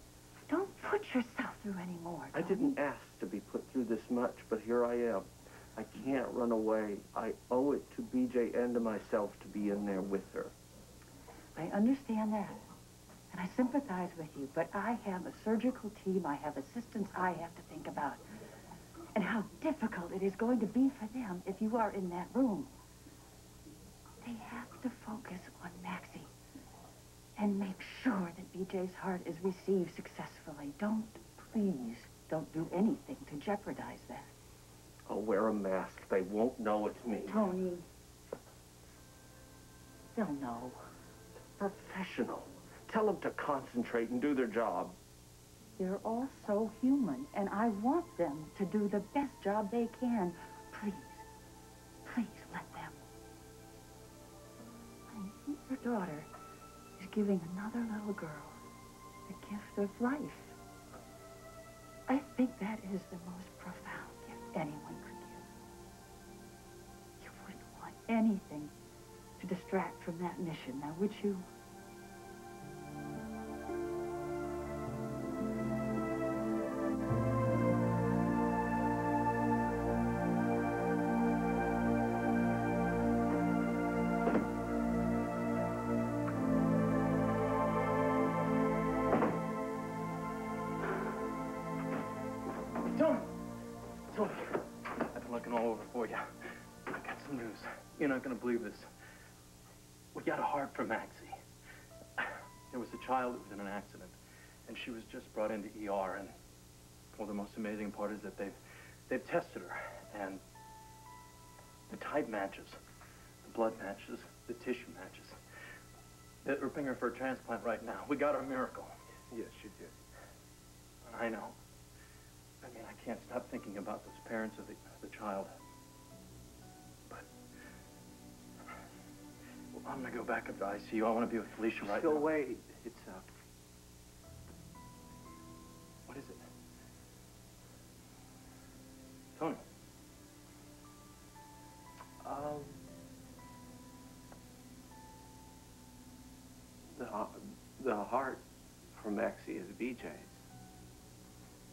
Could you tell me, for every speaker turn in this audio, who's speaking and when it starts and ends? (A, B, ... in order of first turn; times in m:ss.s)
0:00.4-0:02.8 A
0:02.3-0:10.5 B
0:11.6-0:12.6 A
0:13.3-0:18.2 A
0:19.1-0:22.7 A
0:24.2-0:26.3 A
0:27.4-0:34.3 A
0:35.1-0:37.4 B
0:37.3-0:37.8 A
0:40.1-0:40.8 A
0:41.6-0:45.0 B
0:45.8-0:51.2 A
0:52.0-0:53.0 A
0:55.1-0:56.3 A
0:57.0-0:58.6 A
0:59.3-1:00.6 A
1:02.1-1:05.4 A
1:07.2-1:08.7 A
1:09.4-1:11.5 A
1:32.9-1:33.3 C
1:34.1-1:38.9 C
1:40.1-1:41.4 C
1:42.2-1:44.2 C
1:44.7-1:46.3 C
1:47.1-1:48.6 C
1:49.1-1:50.4 C
1:51.9-1:52.8 C
1:53.4-1:55.4 C
1:56.4-1:59.0 C
1:59.3-2:00.0 B
2:01.0-2:01.6 C
2:02.6-2:05.5 C
2:09.7-2:12.3 C
2:11.8-2:13.2 B
2:16.1-2:16.4 C
2:19.4-2:19.6 C
2:22.2-2:22.8 B
2:26.9-2:30.5 B